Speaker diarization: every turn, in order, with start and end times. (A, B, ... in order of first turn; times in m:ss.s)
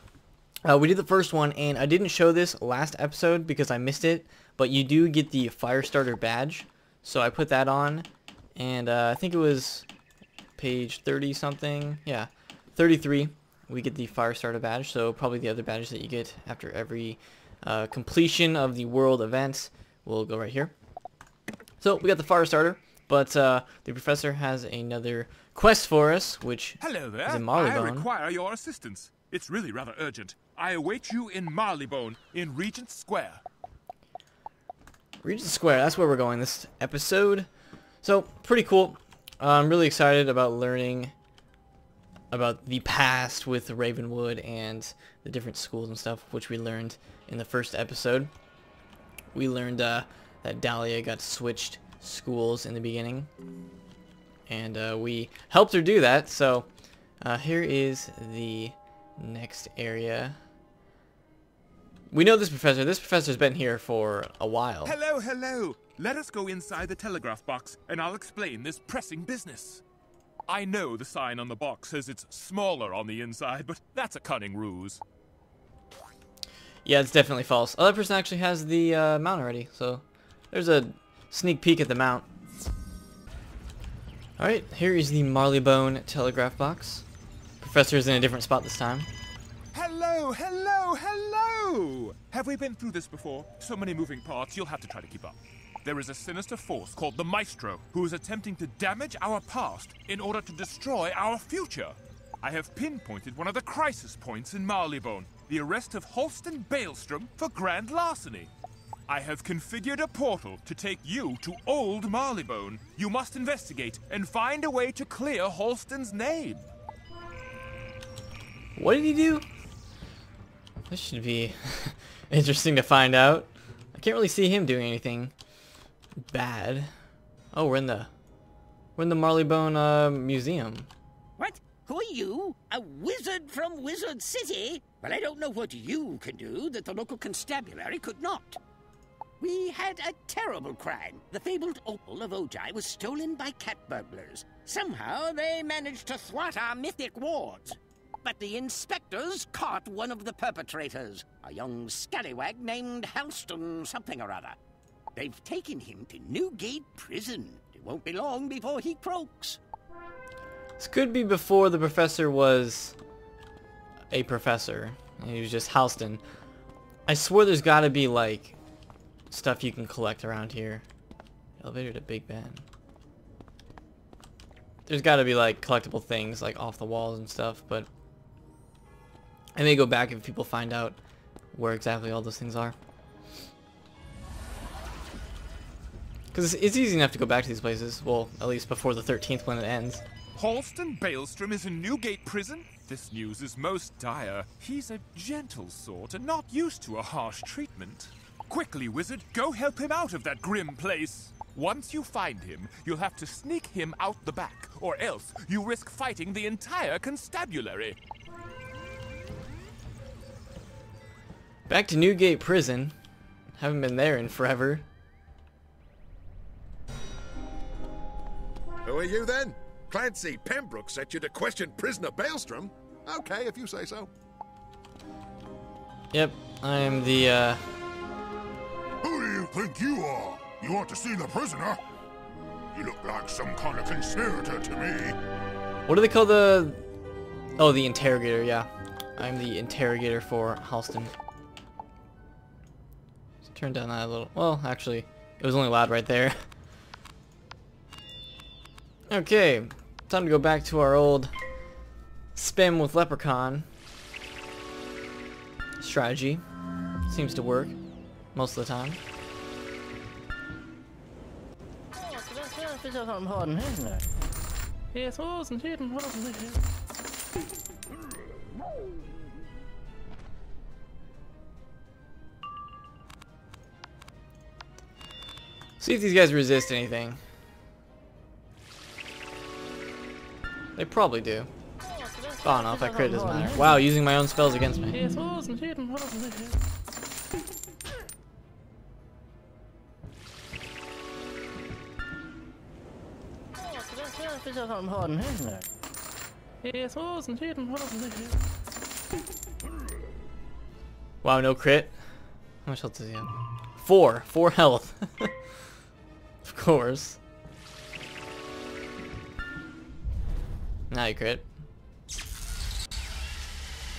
0:00.6-0:09.8 A
0:10.6-0:20.7 A
0:21.8-0:28.1 A
0:26.8-0:33.4 B
0:35.2-0:37.5 A
0:38.0-0:41.1 A
0:42.3-0:48.3 A
0:49.3-0:53.3 A
0:54.5-0:56.7 A
0:57.2-1:00.4 A
1:02.1-1:05.0 A
1:04.8-1:09.8 B
1:10.5-1:15.0 B
1:16.8-1:22.2 A
1:24.4-1:27.0 A
1:27.6-1:29.1 A
1:29.7-1:48.5 B
1:49.1-1:56.7 B
1:58.8-1:59.4 A
2:00.9-2:05.3 A
2:06.3-2:06.9 A
2:07.5-2:08.1 A
2:09.0-2:10.9 A
2:11.4-2:18.6 C
2:19.4-2:34.6 C
2:35.1-2:39.6 C
2:40.8-2:43.0 A
2:44.1-2:46.2 A
2:47.1-2:48.6 A
2:49.3-2:50.8 A
2:51.6-2:52.6 A
2:54.9-2:57.9 A
2:59.6-3:01.0 A
3:01.5-3:02.8 A
3:06.3-3:10.0 A
3:10.3-3:28.0 B
3:31.7-3:32.9 A
3:33.5-3:34.8 A
3:38.8-3:44.1 D
3:46.1-3:47.6 A
3:49.0-3:51.8 E
3:52.7-3:55.1 E
3:55.9-3:56.9 A
3:57.6-4:01.1 A
4:03.4-4:06.4 A
4:09.1-4:11.3 A
4:12.3-4:13.7 A
4:15.8-4:16.4 A
4:17.0-4:17.8 A
4:18.3-4:19.0 A
4:35.8-4:37.2 A
4:40.8-4:41.5 A
4:42.4-4:45.0 A
5:01.2-5:02.0 A
5:02.6-5:05.3 A
5:06.4-5:07.2 A
5:10.9-5:11.5 A